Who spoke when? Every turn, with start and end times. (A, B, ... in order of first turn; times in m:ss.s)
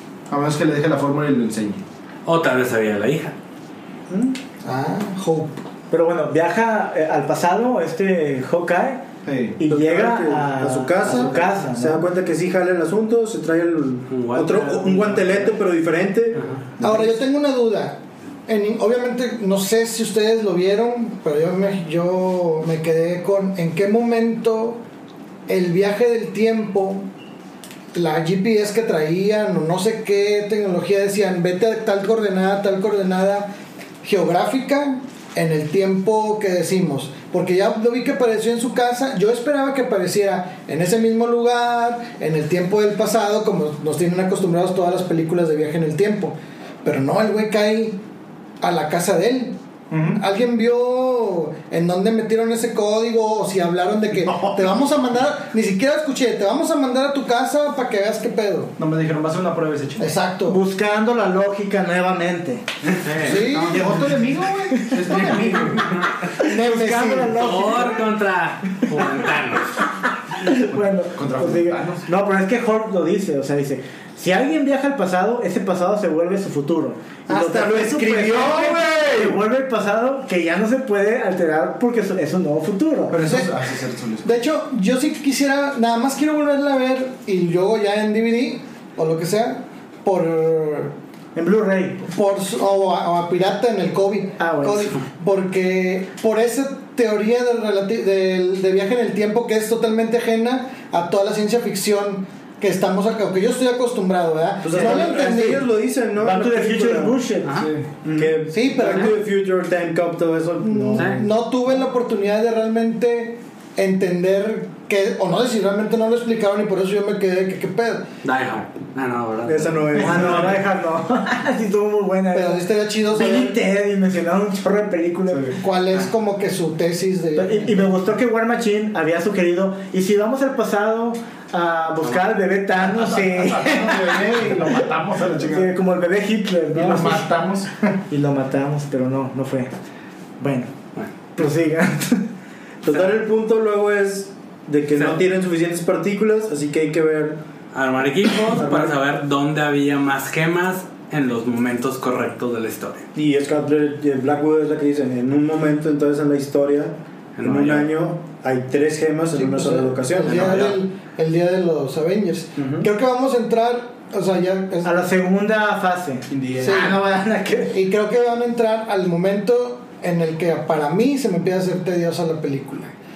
0:00.3-0:01.8 A
0:02.2-0:03.4 B
0:04.1-0:04.4 C
0:04.6-0:05.6 D
0:05.9-0:09.0 E
0:09.2-0:09.6 A
0:09.6-0:12.1 E
0:09.6-0:17.1 C
0:14.1-0:15.6 B
0:16.4-0:16.6 B
0:16.8-0:24.8 D
0:25.5-0:27.1 D
0:27.9-0:48.0 D
0:48.6-0:58.7 D
0:49.9-0:50.2 A
0:54.3-0:54.6 A
0:58.8-1:00.2 A
1:00.0-1:00.6 D
1:00.5-1:02.7 E
1:03.0-1:04.2 B
1:03.2-1:04.0 D
1:03.4-1:06.0 A
1:04.6-1:07.5 D
1:04.7-1:05.7 E
1:06.4-1:08.0 E
1:07.3-1:09.8 B
1:10.4-1:23.2 E
1:10.7-1:12.1 A
1:17.3-1:19.3 A
1:17.4-1:18.7 C
1:23.1-1:24.3 A
1:23.2-1:23.5 D
1:24.2-1:31.0 D
1:31.4-1:32.1 E
1:32.1-1:45.6 D
1:34.4-1:34.9 E
1:44.6-1:47.2 C
1:46.2-1:47.7 E
1:47.4-1:47.7 B
1:48.1-1:51.2 C
1:48.5-1:49.2 D
1:50.6-1:58.0 D
1:51.0-1:51.2 B
1:58.2-2:00.5 B
1:59.4-2:00.6 C
2:00.0-2:05.5 E
2:02.3-2:03.6 D
2:05.5-2:07.8 D
2:07.4-2:17.3 E
2:12.8-2:15.8 A
2:16.7-2:18.0 A
2:18.1-2:19.7 E
2:20.4-2:20.7 E
2:21.4-2:22.3 E
2:22.8-2:27.4 C
2:25.0-2:25.2 B
2:27.7-2:33.1 B
2:28.5-2:29.0 C
2:33.2-2:40.7 C
2:37.4-2:37.9 B
2:39.3-2:44.9 D
2:40.2-2:40.8 B
2:42.6-2:42.9 C
2:44.8-2:47.8 E
2:46.3-2:46.9 A
2:46.6-2:47.0 D
2:47.7-2:53.0 D